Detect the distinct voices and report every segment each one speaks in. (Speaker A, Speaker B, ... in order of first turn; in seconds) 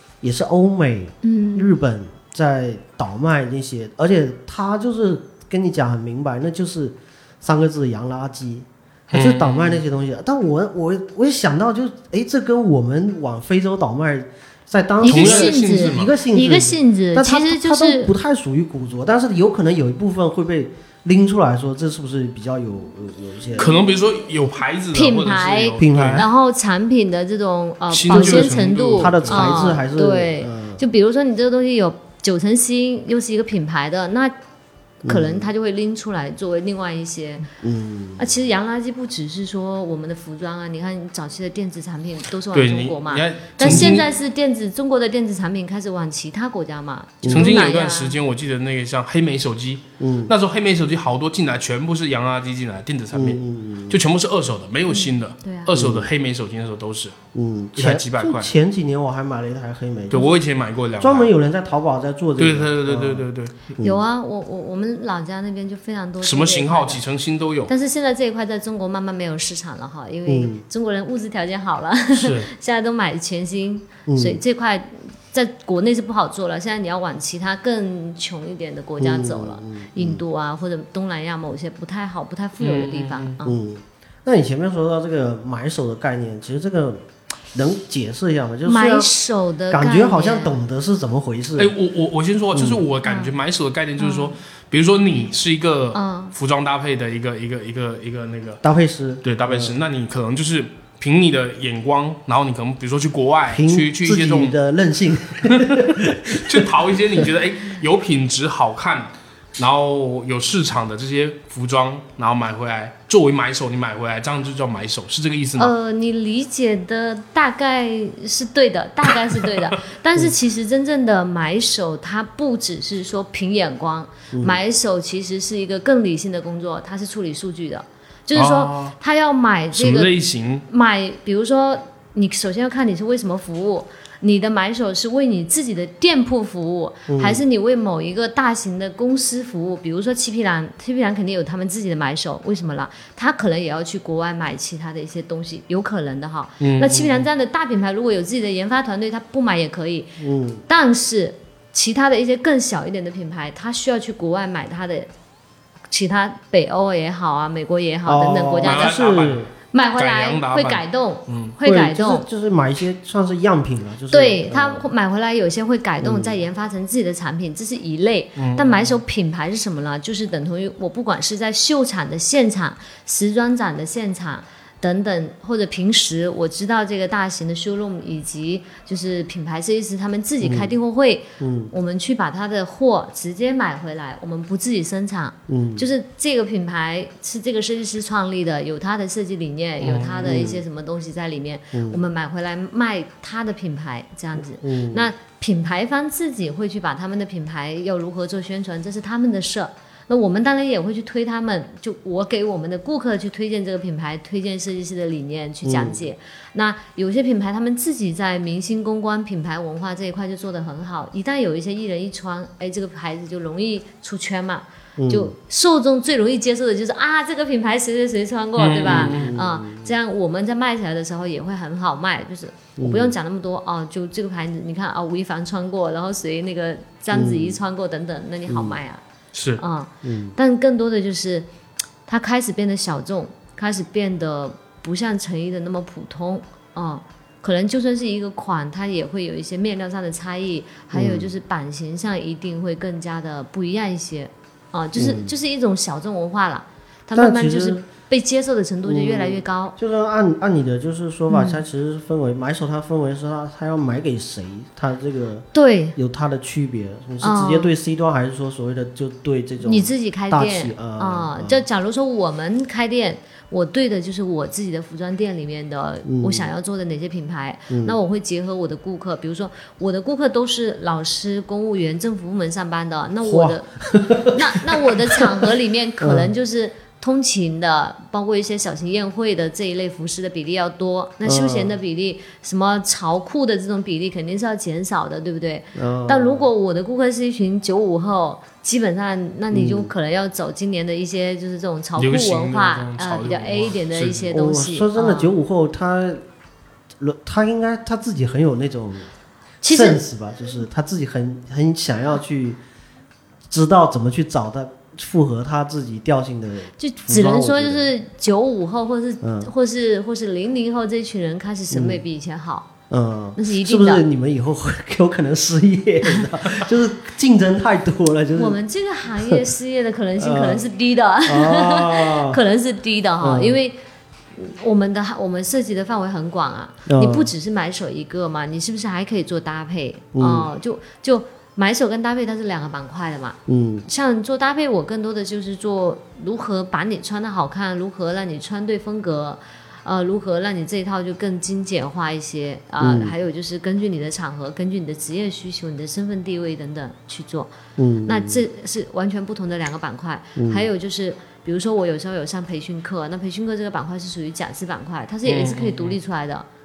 Speaker A: 0.2-23.8, 25.8-26.3, 28.1-30.8, 35.0-35.5, 37.6-38.4, 43.6-44.0, 47.2-47.6, 50.0-50.3, 53.1-54.0, 55.7-56.1, 57.3-60.4, 61.0-64.0, 70.3-70.6, 74.1-74.4, 79.0-80.2, 83.4-89.1, 89.7-91.7, 92.5-92.8, 98.6-99.8, 103.5-107.3, 124.3-124.6, 137.1-137.4, 150.2-150.6, 158.1-159.5, 161.6-164.9, 166.0-166.4, 180.4-180.8, 181.4-181.7, 185.5-185.9, 190.2-190.6, 191.7-192.0, 194.4-195.1, 205.7-206.1, 215.0-215.3, 218.8-219.9, 222.8-223.2, 227.1-227.6, 228.5-228.8, 230.0-230.4, 240.9-241.3, 245.0-245.3, 247.2-247.8, 248.8-261.6, 266.1-266.5, 267.7-268.0, 273.2-275.4, 276.0-276.3, 281.2-281.8, 285.8-286.5, 289.5-289.9, 294.3-296.2, 297.0-299.1, 299.7-302.6, 303.5-307.9, 309.2-309.5, 311.7-312.0, 312.9-318.6, 320.2-320.7, 321.3-322.4, 323.2-323.6, 326.9-327.3, 330.1-330.5, 333.5-333.9, 342.8-343.1, 347.8-348.4, 350.4-350.7
Speaker B: 1.2-1.8, 15.0-18.1, 24.9-34.4, 35.0-37.5, 38.2-48.2, 54.9-55.7, 63.8-67.0, 67.7-83.6, 88.7-90.6, 93.0-93.3, 94.0-94.4, 95.9-96.3, 115.6-130.1, 130.7-155.1, 155.9-159.0, 159.7-162.3, 164.1-229.0, 229.6-231.5, 232.1-249.8, 251.3-251.6, 255.5-256.0, 257.2-257.7, 259.6-295.3, 299.6-300.0, 306.8-312.7, 313.4-314.0, 318.4-323.8, 324.4-347.5, 348.1-356.5
Speaker C: 9.1-9.8, 15.1-16.2, 23.6-26.2, 27.9-29.7, 42.5-44.1, 47.3-57.1, 57.8-58.5, 60.1-61.3, 62.4-63.7, 66.2-67.7, 72.1-72.5, 82.6-83.4, 91.6-98.6, 99.2-104.6, 106.4-115.7, 128.3-129.0, 129.7-130.7, 146.6-147.1, 158.6-159.4, 160.0-161.6, 168.4-168.9, 189.8-190.4, 218.6-219.3, 229.3-229.6, 292.0-294.3, 355.3-356.0